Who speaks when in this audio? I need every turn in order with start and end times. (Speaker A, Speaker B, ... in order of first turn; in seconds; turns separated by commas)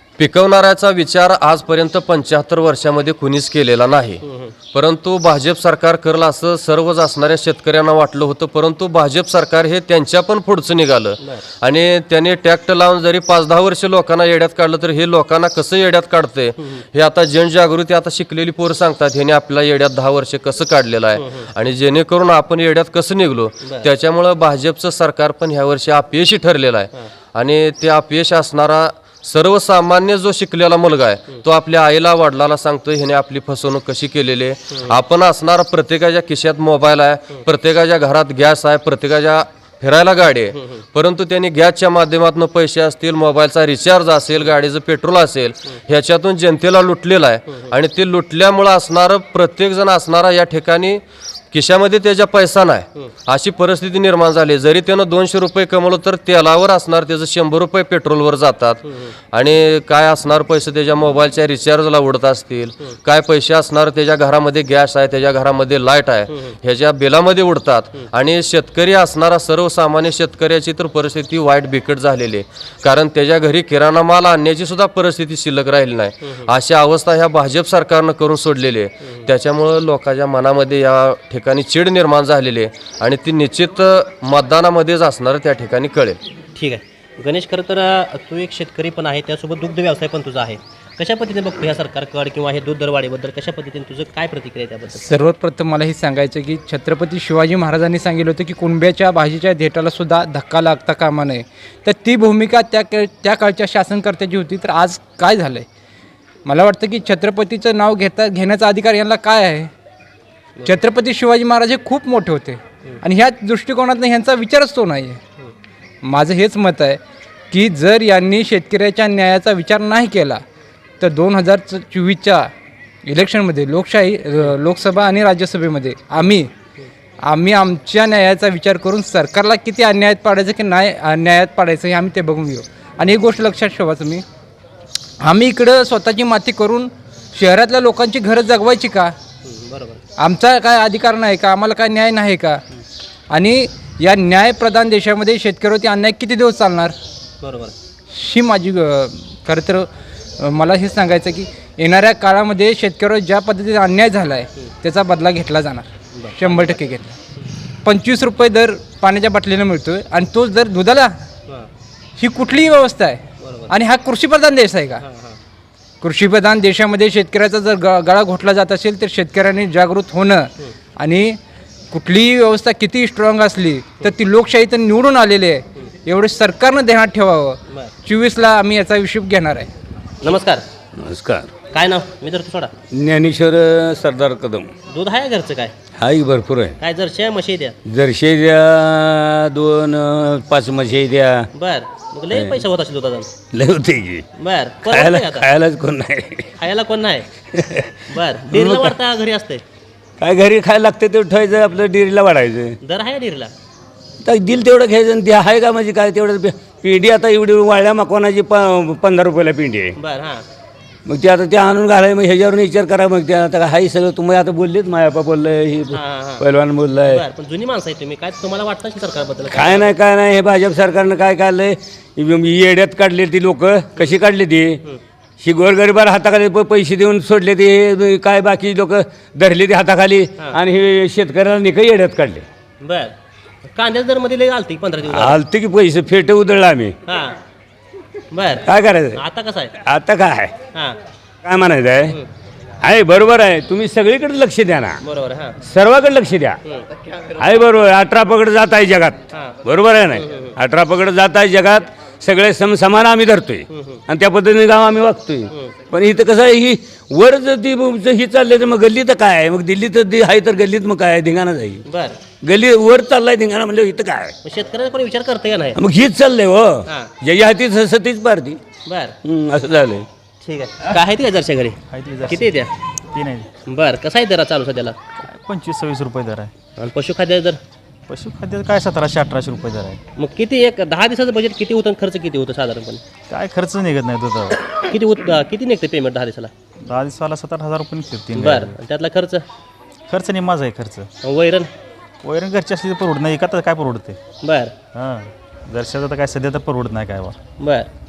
Speaker A: 0.2-86.2, Speaker B: 4.3-4.5, Speaker B: 21.2-21.5, Speaker B: 86.5-95.0, Speaker C: 95.0-105.7, Speaker C: 106.4-109.7, Speaker C: 110.6-115.2, Speaker C: 116.0-117.0, Speaker C: 117.5-120.4, Speaker C: 121.0-122.5, Speaker C: 123.0-126.5, Speaker C: 127.2-134.2, Speaker C: 135.2-139.1, Speaker B: 139.4-140.0, Speaker C: 140.2-142.6, Speaker C: 143.3-146.9, Speaker B: 147.4-147.7, Speaker C: 148.1-157.1, Speaker B: 156.2-156.8, Speaker C: 157.8-161.2, Speaker C: 162.2-165.0, Speaker B: 163.4-163.7, Speaker B: 165.0-165.4, Speaker C: 166.0-171.4, Speaker C: 171.9-179.7, Speaker B: 180.2-180.6, Speaker D: 181.0-181.5, Speaker B: 181.7-182.7, Speaker D: 182.9-184.7, Speaker B: 184.9-185.7, Speaker D: 186.0-186.7, Speaker B: 186.8-187.7, Speaker D: 187.8-191.5, Speaker B: 191.5-193.3, Speaker D: 192.3-192.6, Speaker D: 193.5-194.2, Speaker B: 194.4-195.5, Speaker D: 194.8-196.5, Speaker B: 196.6-197.3, Speaker D: 197.5-197.9, Speaker B: 198.1-199.6, Speaker D: 198.5-198.9, Speaker D: 200.2-202.8, Speaker B: 202.8-203.5, Speaker D: 204.2-209.9, Speaker B: 210.0-210.4, Speaker D: 211.1-217.2, Speaker B: 215.9-216.4, Speaker B: 217.0-219.9, Speaker D: 219.5-224.8, Speaker D: 225.4-232.4, Speaker B: 232.8-233.1, Speaker B: 233.7-235.4, Speaker D: 235.1-236.9, Speaker B: 237.1-237.4, Speaker B: 238.3-239.7, Speaker D: 238.7-239.2, Speaker D: 239.8-240.5, Speaker D: 241.4-242.2, Speaker D: 242.8-245.0, Speaker B: 245.0-245.6, Speaker D: 245.6-246.6, Speaker D: 247.4-261.8, Speaker B: 249.3-249.6, Speaker B: 250.1-250.5, Speaker B: 253.7-254.0, Speaker B: 261.9-262.2, Speaker D: 262.4-264.3, Speaker B: 264.4-265.8, Speaker D: 265.8-268.6, Speaker B: 268.9-269.1, Speaker D: 269.2-270.1, Speaker B: 270.4-272.7, Speaker E: 271.9-272.4, Speaker E: 273.1-273.5, Speaker B: 273.7-274.9, Speaker E: 275.2-276.5, Speaker B: 276.9-277.6, Speaker E: 278.1-280.0, Speaker B: 280.2-283.0, Speaker E: 283.3-284.6, Speaker B: 284.8-286.5, Speaker E: 286.9-288.7, Speaker B: 288.3-289.4, Speaker E: 290.1-291.1, Speaker B: 291.2-291.7, Speaker E: 292.2-294.2, Speaker B: 294.4-294.7, Speaker E: 294.9-297.4, Speaker B: 297.6-297.9